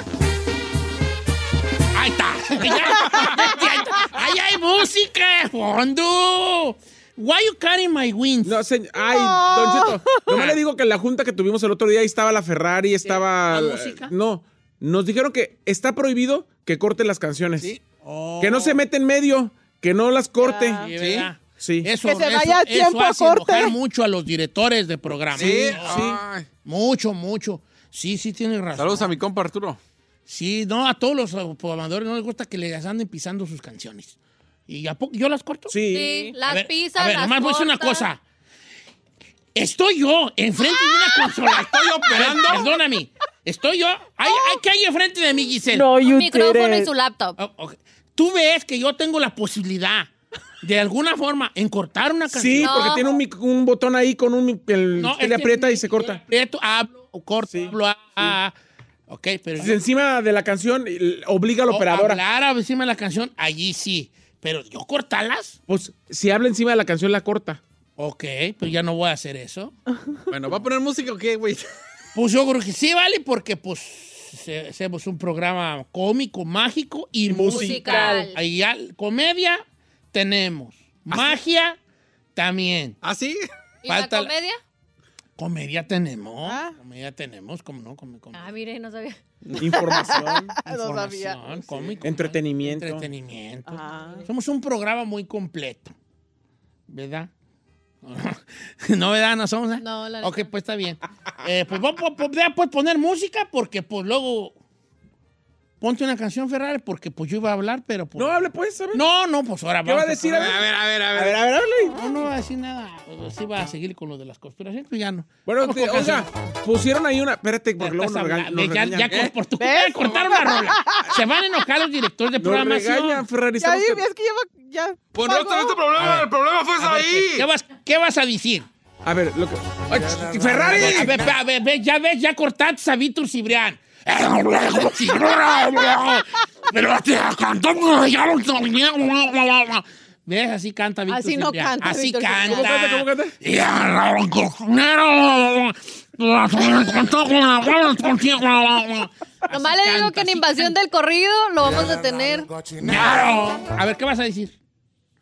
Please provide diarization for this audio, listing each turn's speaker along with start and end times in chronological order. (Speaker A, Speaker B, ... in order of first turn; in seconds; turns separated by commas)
Speaker A: 1.9-8.6, Speaker B: 8.4-17.7, Speaker C: 9.0-10.3, Speaker A: 13.1-14.1, Speaker A: 17.9-18.8, Speaker B: 18.4-20.9, Speaker C: 20.4-20.9, Speaker A: 20.8-26.1, Speaker D: 21.0-21.3, Speaker B: 21.6-21.9, Speaker C: 22.0-23.8, Speaker D: 25.3-26.5, Speaker B: 25.3-26.2, Speaker A: 26.6-29.2, Speaker D: 28.8-29.8, Speaker A: 30.3-34.2, Speaker A: 34.7-35.8, Speaker B: 35.7-36.1, Speaker E: 35.9-38.1, Speaker C: 36.0-36.3, Speaker A: 36.5-38.2, Speaker A: 39.5-46.1, Speaker D: 41.5-42.7, Speaker E: 44.3-44.6, Speaker E: 46.0-47.4, Speaker A: 47.4-50.1, Speaker A: 50.6-53.0, Speaker B: 52.3-56.2, Speaker E: 52.6-53.2, Speaker A: 55.0-58.5, Speaker B: 57.5-58.3, Speaker A: 59.1-59.8, Speaker B: 59.6-62.2, Speaker A: 61.7-65.6, Speaker B: 65.7-67.6, Speaker A: 68.0-69.7, Speaker D: 70.3-71.7, Speaker A: 72.2-81.8, Speaker B: 77.3-78.3, Speaker E: 77.5-78.4, Speaker D: 81.1-81.4, Speaker A: 82.3-83.0, Speaker D: 83.0-83.4, Speaker E: 83.8-84.6, Speaker A: 83.9-84.3, Speaker A: 85.4-88.4, Speaker C: 86.5-86.8, Speaker E: 88.3-89.2, Speaker B: 89.5-90.5, Speaker C: 89.7-91.7, Speaker A: 90.7-95.9, Speaker B: 92.0-93.1, Speaker C: 93.7-94.3, Speaker A: 96.9-97.3, Speaker A: 98.0-104.6, Speaker E: 99.8-100.5, Speaker A: 105.8-108.4, Speaker B: 108.2-109.0, Speaker A: 108.9-110.5, Speaker B: 109.8-110.6, Speaker D: 110.3-111.5, Speaker B: 111.1-112.0, Speaker A: 111.9-116.3, Speaker B: 115.5-119.3, Speaker A: 117.8-123.2, Speaker C: 119.6-121.2, Speaker B: 122.4-124.1, Speaker C: 123.5-125.9, Speaker D: 125.1-127.5, Speaker A: 126.0-128.7, Speaker B: 129.0-131.3, Speaker D: 130.2-131.2, Speaker A: 130.5-150.8, Speaker E: 141.1-142.7, Speaker B: 142.5-143.3, Speaker E: 149.5-152.6, Speaker A: 152.8-154.6